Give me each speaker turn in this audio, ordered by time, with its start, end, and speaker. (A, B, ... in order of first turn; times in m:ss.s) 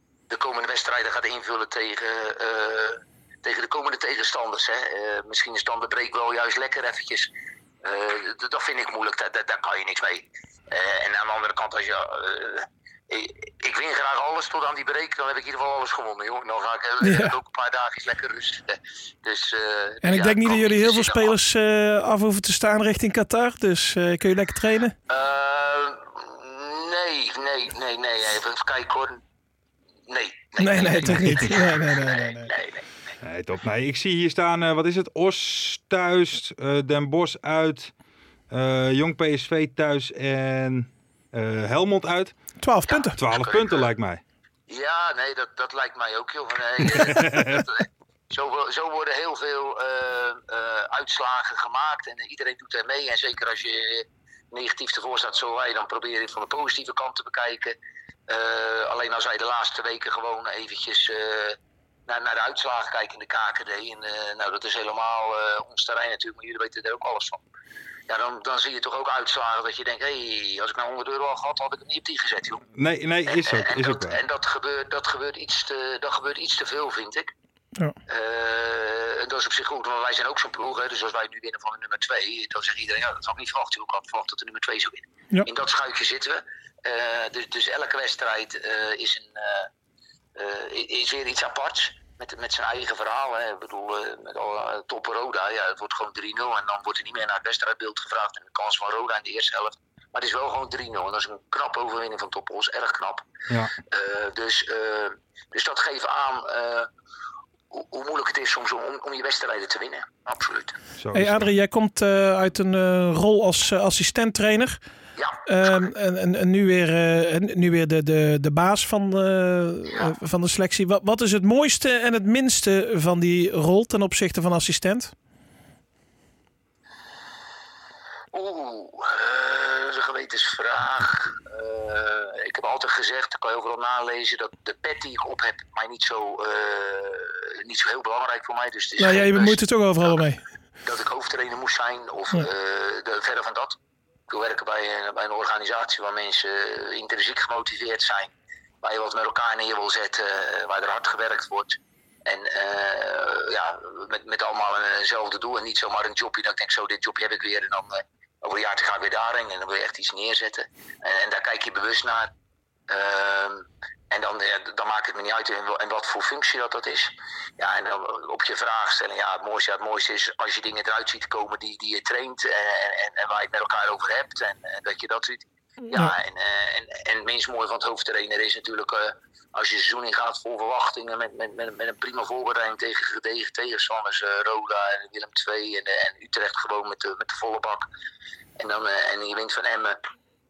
0:00.3-0:07.3 A
0:07.8-0:21.4 A
0:17.0-0:17.4 B
0:20.0-0:24.9 B
0:25.1-0:29.2 A
0:30.1-0:32.9 A
0:30.6-0:32.5 B
0:33.2-0:37.9 C
0:38.5-0:42.4 C
0:42.6-0:43.2 B
0:42.9-0:43.8 A
0:43.1-0:44.2 C
0:44.7-0:57.8 A
0:46.8-0:47.6 C
0:58.3-1:07.4 A
1:08.1-1:12.6 A
1:12.7-1:14.2 C
1:13.2-1:17.3 A
1:18.1-1:29.7 A
1:30.3-1:46.9 A
1:43.5-1:43.7 C
1:47.7-1:50.8 A
1:51.0-1:51.5 C
1:51.1-1:54.8 B
1:55.2-1:55.9 A
1:55.4-2:05.1 B
2:08.3-2:20.1 A
2:19.0-2:20.4 B
2:20.8-2:23.8 A
2:24.3-2:42.3 A
2:42.9-3:07.9 A
3:08.6-3:10.0 A